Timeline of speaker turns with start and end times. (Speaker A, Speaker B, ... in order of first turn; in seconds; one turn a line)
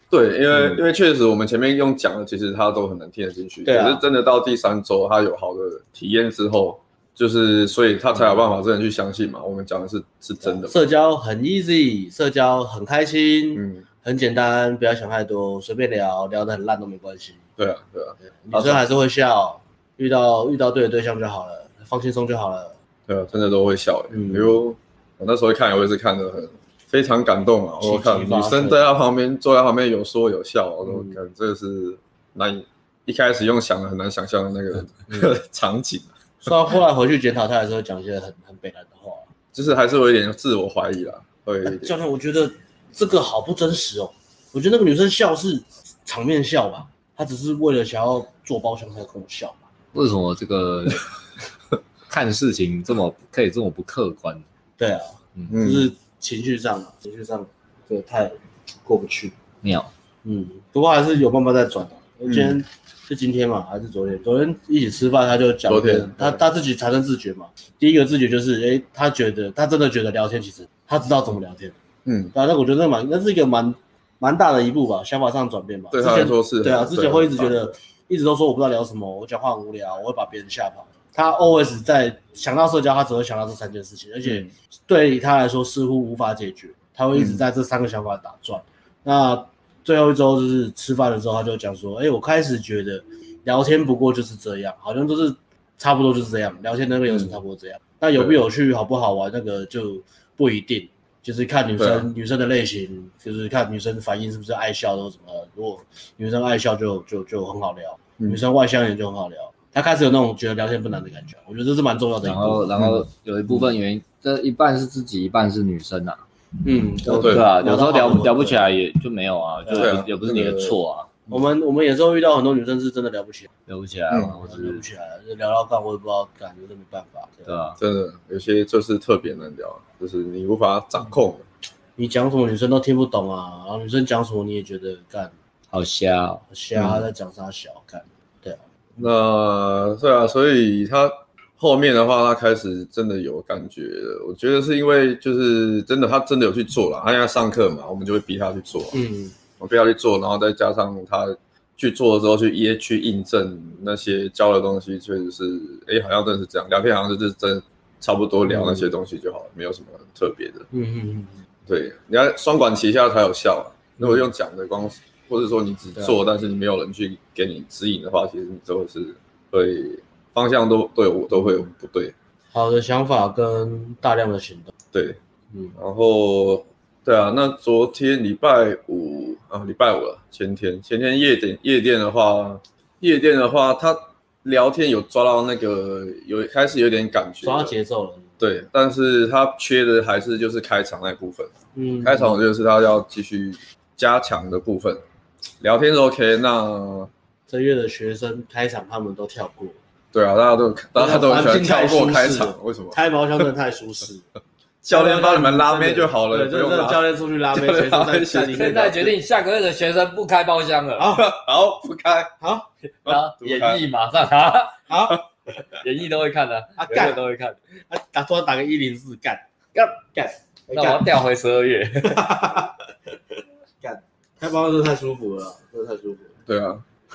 Speaker A: 0.1-10.8
Speaker B: 0.5-0.8
Speaker B: 3.6-4.0
Speaker B: 10.4-17.4
Speaker A: 13.5-13.8
Speaker A: 17.6-18.8
Speaker B: 18.4-22.7
Speaker A: 23.1-36.5
Speaker B: 24.1-24.5
Speaker B: 27.8-28.8
Speaker B: 30.8-31.2
Speaker B: 35.1-35.4
Speaker B: 36.4-39.2
Speaker A: 39.5-41.9
Speaker B: 41.6-49.6
Speaker C: 49.9-51.0
Speaker C: 52.1-54.4
Speaker B: 54.8-59.3
Speaker A: 55.5-55.9
Speaker C: 59.6-59.9
Speaker B: 60.2-71.7
Speaker A: 62.3-62.6
Speaker A: 65.7-66.4
Speaker A: 72.0-72.3
Speaker B: 72.3-112.7
Speaker A: 75.9-77.6
Speaker A: 84.2-84.5
Speaker A: 87.1-87.4
Speaker A: 101.8-102.1
Speaker C: 112.2-116.2
Speaker A: 112.8-113.0
Speaker B: 116.6-118.6
Speaker C: 117.1-121.1
Speaker A: 117.1-117.5
Speaker B: 119.7-120.0
Speaker A: 119.8-120.7
Speaker B: 121.3-123.5
Speaker C: 123.7-124.8
Speaker A: 124.1-124.3
Speaker B: 124.4-127.5
Speaker C: 127.5-127.8
Speaker A: 127.8-131.4
Speaker B: 132.0-135.3
Speaker C: 135.7-136.4
Speaker B: 136.5-138.6
Speaker A: 136.7-137.0
Speaker A: 139.0-148.9
Speaker B: 148.9-149.3
Speaker A: 149.6-160.7
Speaker B: 158.4-158.9
Speaker B: 160.7-161.4
Speaker A: 161.7-172.1
Speaker B: 164.0-164.2
Speaker B: 172.5-174.7
Speaker A: 174.9-175.2
Speaker A: 175.8-187.7
Speaker B: 187.4-188.3
Speaker A: 188.4-191.5
Speaker B: 191.7-192.4
Speaker A: 192.0-195.0
Speaker A: 195.6-197.1
Speaker B: 197.5-199.8
Speaker A: 200.1-203.4
Speaker B: 200.9-204.2
Speaker A: 204.8-209.1
Speaker B: 204.9-209.1
Speaker C: 208.5-211.1
Speaker B: 211.0-211.3
Speaker A: 211.1-212.3
Speaker B: 212.4-212.7
Speaker A: 213.0-213.8
Speaker C: 213.0-214.8
Speaker B: 214.9-215.2
Speaker C: 215.8-217.6
Speaker B: 216.8-217.2
Speaker B: 217.9-221.1
Speaker C: 220.7-222.3
Speaker B: 222.0-222.8
Speaker B: 223.8-226.3
Speaker A: 226.5-226.8